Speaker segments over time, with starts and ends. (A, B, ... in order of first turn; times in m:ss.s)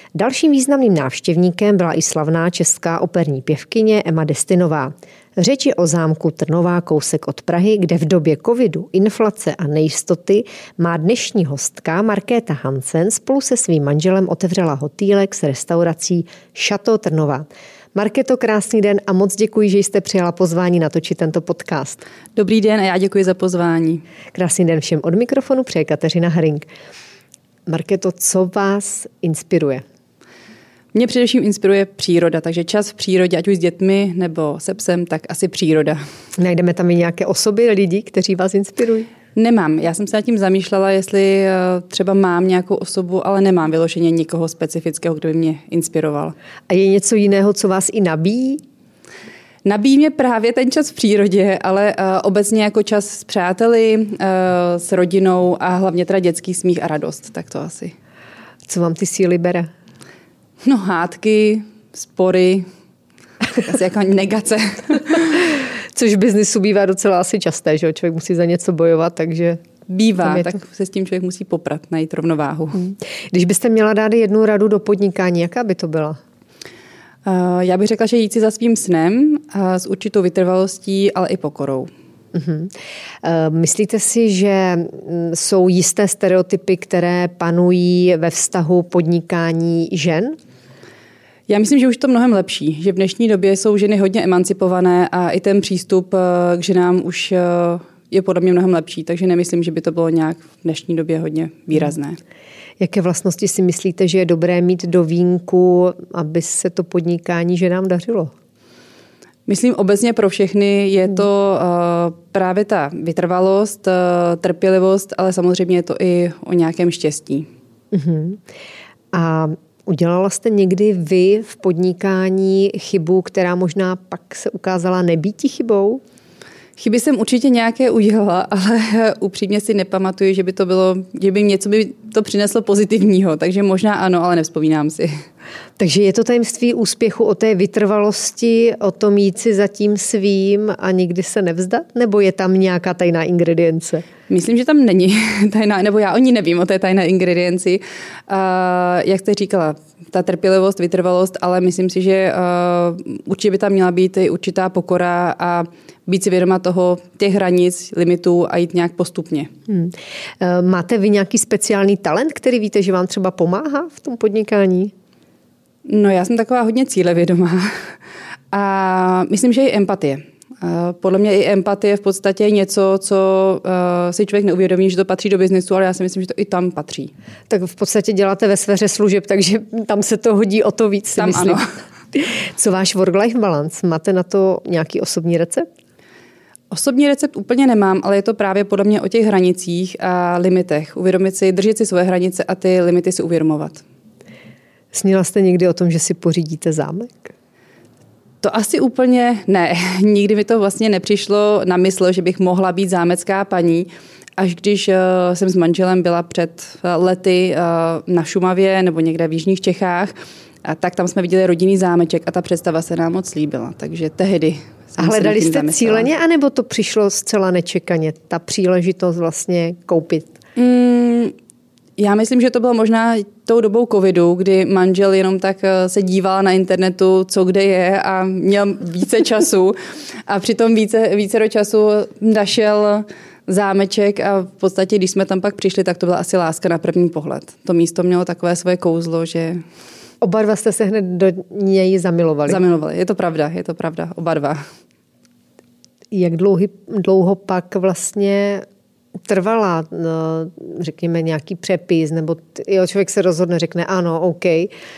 0:00.2-0:22.0 A
0:22.4-0:24.0 B
0:24.3-0:26.7 A
0:27.7-0:29.8 A
0:30.9-0:36.0 B
0:36.4-0:39.1 A
0:39.4-0:46.4 B
0:46.7-0:48.6 A
0:49.6-0:58.0 B
0:58.7-0:59.7 A
1:00.6-1:02.7 B
1:03.5-1:05.6 B
1:05.5-1:09.6 A
1:09.9-1:12.9 B
1:10.2-1:10.6 A
1:12.8-1:16.2 A
1:17.2-1:21.9 B
1:22.3-1:30.4 A
1:31.5-1:42.2 B
1:42.8-1:48.3 A
1:49.5-1:57.5 B
1:57.9-1:58.4 A
1:59.1-2:06.0 A
2:06.8-2:15.2 B
2:15.8-2:24.1 A
2:24.3-2:39.5 B
2:39.7-2:44.9 A
2:45.9-2:47.9 B
2:48.5-2:57.1 B
2:57.5-3:05.7 A
3:01.2-3:01.7 B
3:06.7-3:13.8 B
3:14.9-3:17.3 A
3:18.4-3:36.1 B
3:35.0-3:40.3 A
3:40.6-3:41.3 B
3:42.0-3:49.8 B
3:50.3-3:59.6 B
4:00.2-4:02.6 A
4:02.5-4:04.6 B
4:06.1-4:08.7 A
4:09.3-4:14.7 A